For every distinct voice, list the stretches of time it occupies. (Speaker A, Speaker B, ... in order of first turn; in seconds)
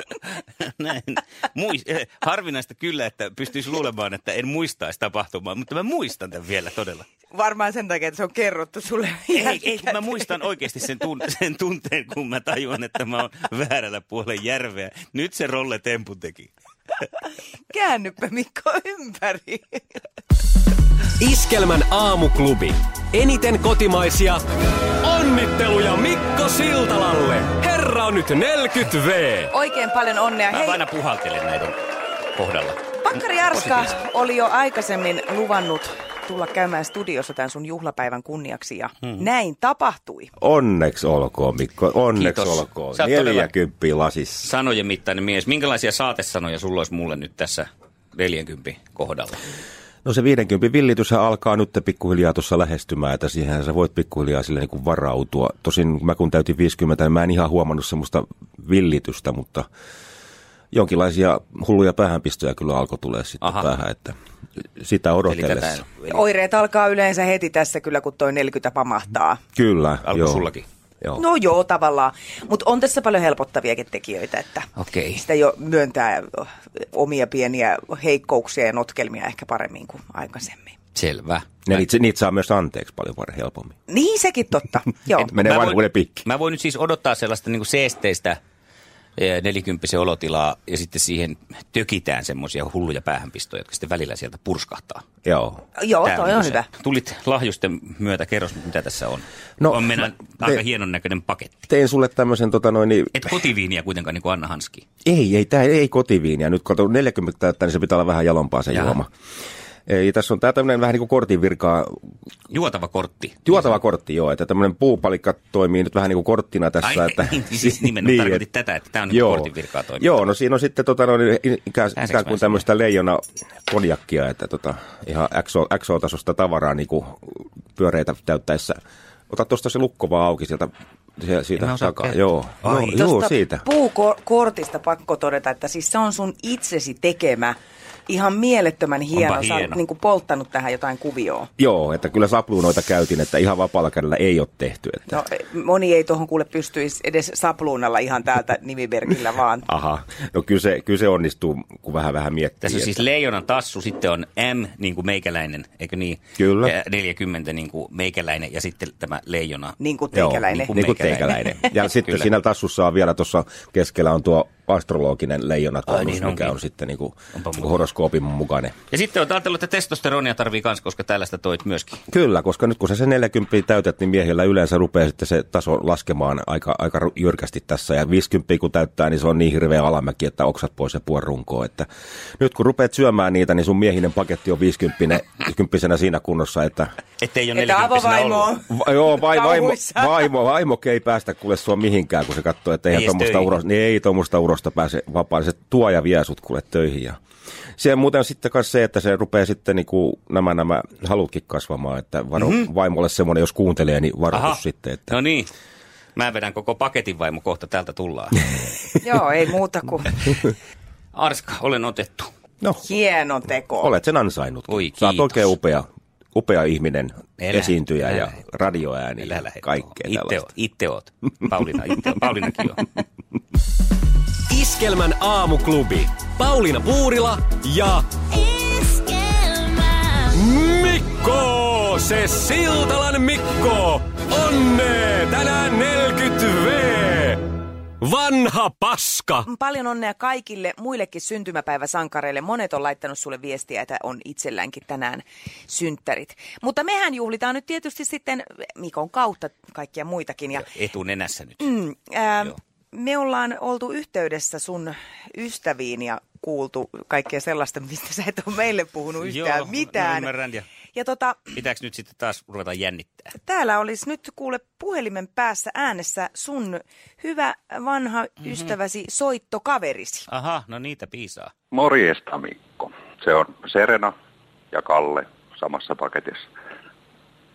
Speaker A: 0.4-7.1, 9.3-16.5, 30.5-31.8, 32.4-32.8, 33.5-33.9, 42.1-43.5, 44.4-49.5, 63.4-63.7, 65.3-66.2, 70.0-70.7, 74.8-75.2, 80.9-81.8, 85.2-88.4, 89.2-95.0, 96.0-101.7, 103.1-104.8, 108.7-109.0, 112.5-113.6, 116.8-120.1, 122.0-122.7, 131.6-133.0, 139.1-139.8, 152.6-159.8, 160.5-162.3, 165.9-166.6, 167.3-167.8, 168.9-172.0, 187.2-188.5, 192.9-193.6, 202.4-202.7, 204.3-205.5, 206.2-208.4, 211.1-212.3, 214.7-215.5, 217.4-218.4, 219.2-222.9, 250.6-251.7, 259.2-260.7, 261.5-263.3, 270.3-271.5
Speaker B: 7.3-10.2, 17.7-20.0, 29.5-30.8, 33.0-40.3, 66.1-69.4, 71.2-80.8, 83.9-85.3, 95.8-96.7, 132.9-137.6, 138.1-141.5, 145.1-149.7, 159.8-160.7, 187.5-190.3, 209.0-210.3, 212.8-213.9, 239.5-250.7, 251.6-260.3, 260.9-261.5, 263.4-270.3
Speaker C: 21.2-24.4, 25.0-29.5, 224.5-228.0, 230.3-237.4, 238.0-239.5
Speaker D: 40.4-44.5, 50.0-59.7, 60.7-64.2, 64.8-65.8, 69.6-70.5, 81.7-83.8, 85.2-86.2, 95.2-95.6, 99.6-100.6, 101.7-103.3, 105.0-109.1, 109.9-112.0, 113.5-118.4, 119.1-128.8, 129.3-133.6, 141.6-145.2, 149.7-153.1, 156.4-156.7, 160.1-168.7, 172.1-181.9, 182.4-186.9, 188.7-197.2, 197.8-205.2, 213.8-220.5
Speaker E: 271.7-274.1, 274.7-276.5